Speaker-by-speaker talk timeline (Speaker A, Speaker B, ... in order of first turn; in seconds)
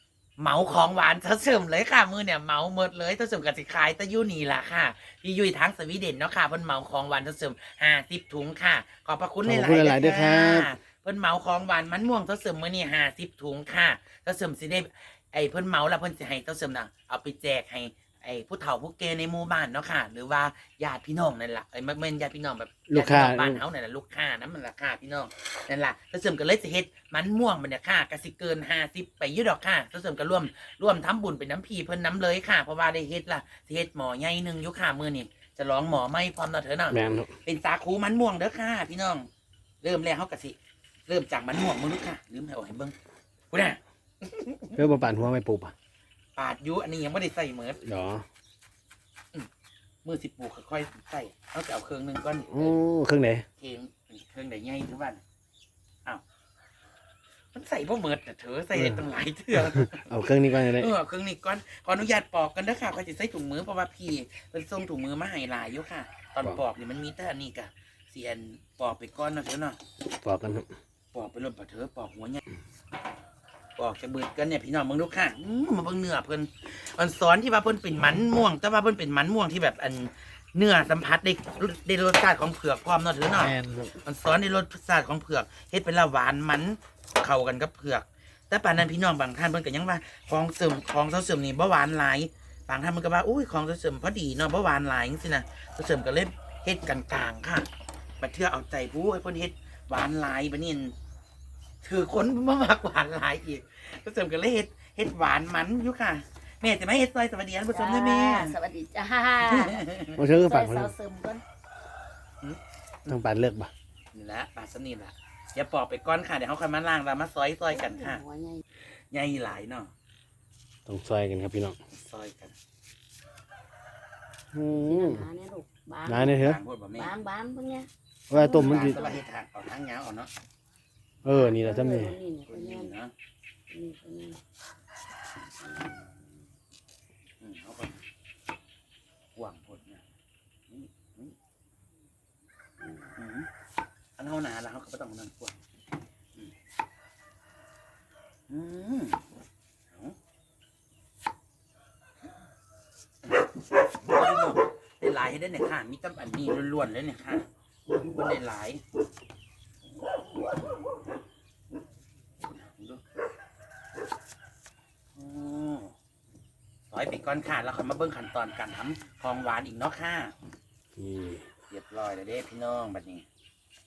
Speaker A: 0.4-39.3, 39.8-40.5, 41.1-42.9, 43.5-44.8, 46.4-47.8, 50.0-52.8, 53.6-55.2, 57.5-69.8, 71.1-72.4, 73.8-97.7, 98.2-100.9, 101.8-108.5, 109.4-110.2, 114.1-118.2, 119.1-119.9, 121.9-122.5, 126.3-127.1, 128.4-130.3, 132.5-133.1, 137.4-138.0, 139.3-140.0, 140.7-141.3, 143.2-143.5, 144.2-145.6, 148.5-149.2, 154.0-158.8, 162.4-163.0, 165.2-165.9, 166.9-170.3, 171.7-173.2
Speaker B: 9.4-10.7, 22.9-23.6, 36.9-37.3, 44.7-45.7, 47.8-48.2, 52.5-53.5, 58.7-59.0, 59.5-60.9, 70.2-70.7, 83.3-84.0, 110.1-110.9, 113.1-113.7, 120.8-121.8, 124.5-125.3, 126.0-126.6, 128.3-129.0, 131.2-132.1, 170.9-171.4
Speaker C: 107.7-111.4, 117.7-118.6, 124.7-126.4, 127.0-129.2, 131.3-132.9, 133.7-134.4, 135.6-136.1, 142.8-143.1